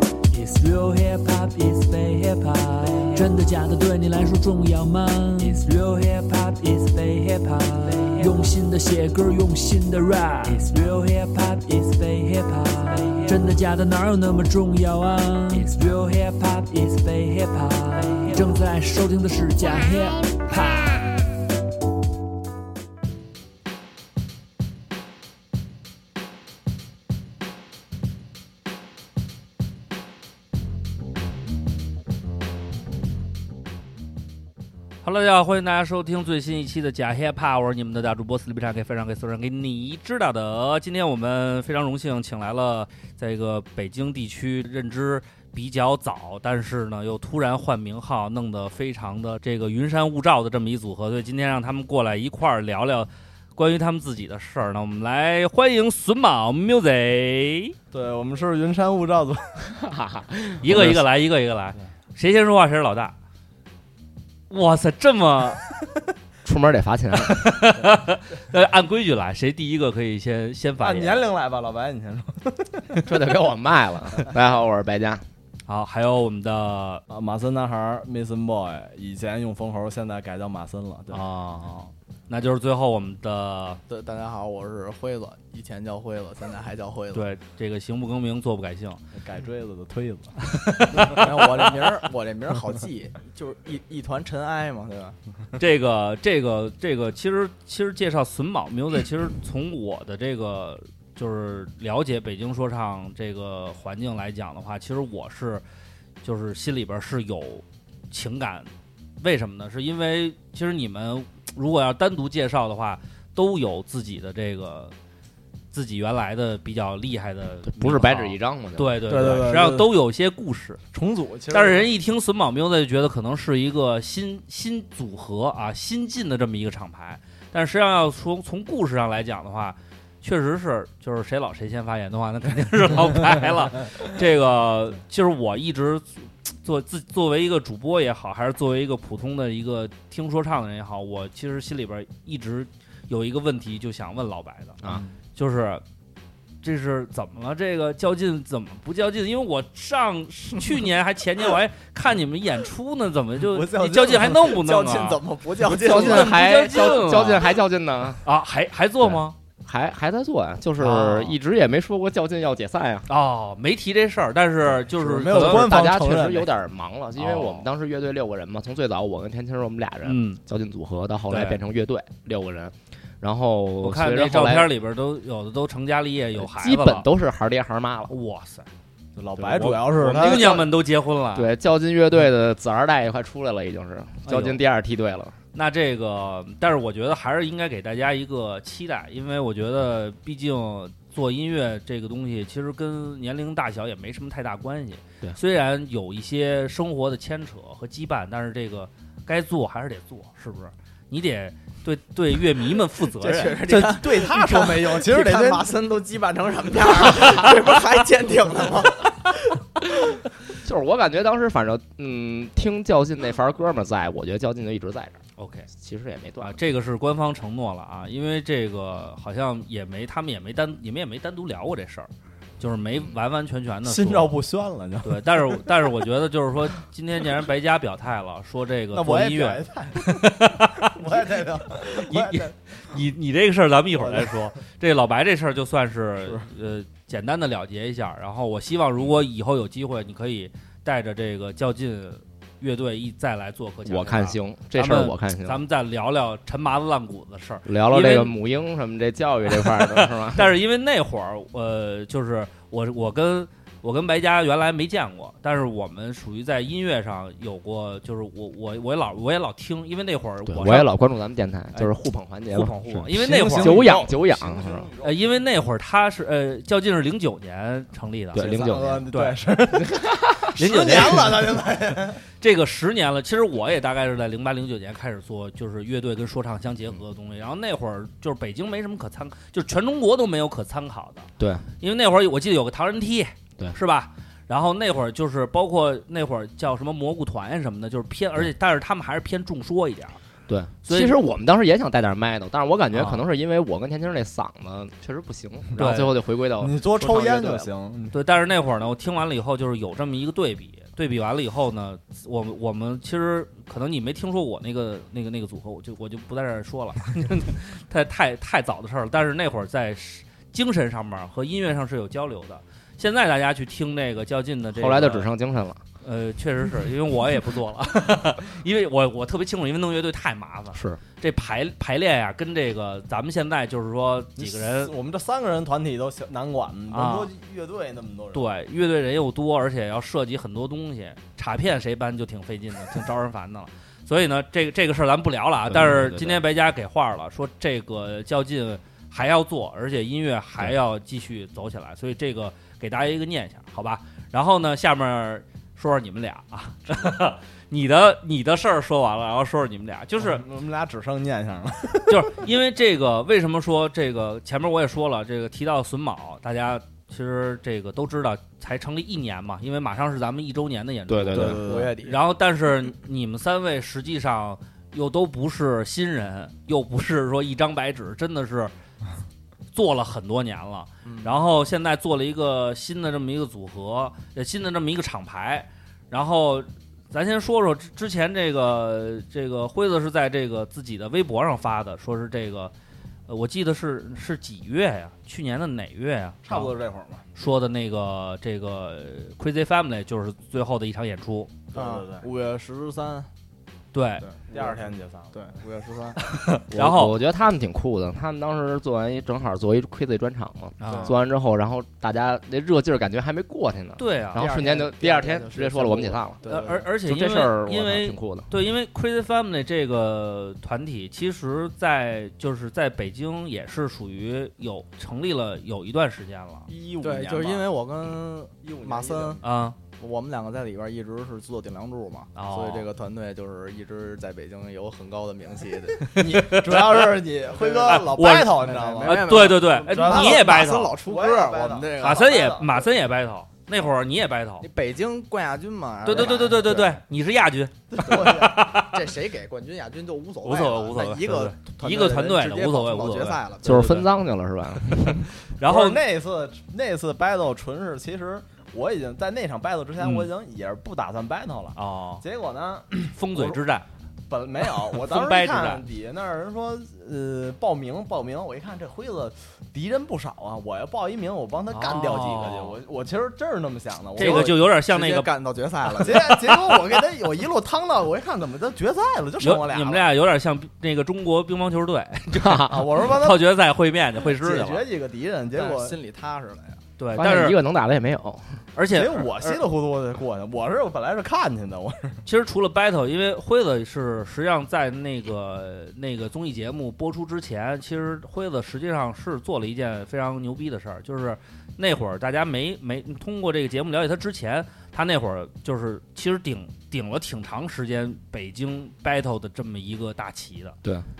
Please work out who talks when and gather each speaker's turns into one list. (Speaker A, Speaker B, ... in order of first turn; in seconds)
Speaker A: 0.3-21.1
Speaker B: 35.0-57.7, 60.6-63.1, 64.5-65.6, 67.2-71.2, 75.7-77.0, 81.1-83.8, 87.1-89.0, 90.4-91.7, 95.6-105.6, 106.2-108.7, 109.2-114.9, 115.7-120.8, 121.5-144.8, 145.3-145.8, 146.6-155.2, 155.7-157.5, 158.2-159.3, 160.8-161.3, 163.1-165.7, 167.2-167.6, 170.0-170.4, 171.3-171.6, 173.8-177.1, 178.1-178.7, 179.6-181.5, 184.2-184.6, 185.5-203.6, 215.4-215.7, 216.4-222.1, 222.6-224.3, 225.0-231.0, 231.8-248.3, 249.5-260.9, 262.5-263.9, 265.0-268.5, 270.6-271.7, 272.4-281.3, 281.8-290.2, 290.8-291.2, 292.9-293.2, 295.8-296.1, 298.1-315.3, 316.0-324.9, 326.9-327.3, 328.3-350.4, 352.1-368.7, 369.7-382.7, 383.3-386.7, 387.3-391.5, 393.9-394.2, 396.2-397.1, 400.8-401.1, 404.0-404.4, 406.4-416.7, 419.4-419.8, 422.3-422.9, 426.2-426.9, 427.9-430.9, 432.0-434.6, 436.0-439.0, 440.4-443.4, 445.6-446.0, 450.0-450.3, 451.7-452.2, 453.1-453.9, 454.9-455.8, 461.7-462.8, 464.2-465.3, 469.4-474.9, 477.0-477.6, 478.8-479.6, 482.2-500.8
Speaker C: 57.9-59.6, 70.8-73.1, 77.1-81.2, 89.1-90.4, 119.1-119.9, 120.9-121.9, 153.5-154.5, 164.9-166.5, 179.2-180.7, 203.6-205.8, 223.8-225.9, 228.9-232.5, 234.0-234.4, 263.1-265.2, 268.4-272.2, 296.6-298.1, 324.4-328.5, 350.2-352.4, 361.3-361.9, 386.4-387.2, 391.7-392.3, 394.5-395.5, 416.7-417.7, 418.6-419.4, 426.1-432.8, 437.9-438.7, 445.6-453.6, 454.3-464.5, 466.0-470.1, 472.6-473.5, 474.2-475.9, 478.9-482.2
Speaker D: 59.8-61.0, 66.4-67.6, 73.0-75.2, 117.7-119.4, 155.6-158.2, 159.0-163.1, 165.2-174.7, 176.3-178.1, 179.4-180.5, 181.3-185.3, 210.5-215.2, 215.8-216.6, 243.8-245.6, 247.7-250.6, 260.4-264.9, 268.3-269.1, 269.8-270.5, 281.4-281.7, 290.5-297.6, 314.7-315.8, 320.7-321.0, 335.7-336.4, 361.1-361.6, 396.7-408.5, 443.6-445.2, 472.4-472.7, 477.1-478.4
Speaker E: 83.9-87.2, 91.1-95.2, 154.4-156.5, 203.2-209.6, 361.6-362.2, 371.0-371.4, 391.7-393.3, 394.2-396.2, 404.3-406.9, 417.0-419.4, 420.0-426.1, 427.4-432.4, 434.6-437.0, 438.1-444.1, 464.2-466.9, 475.5-476.8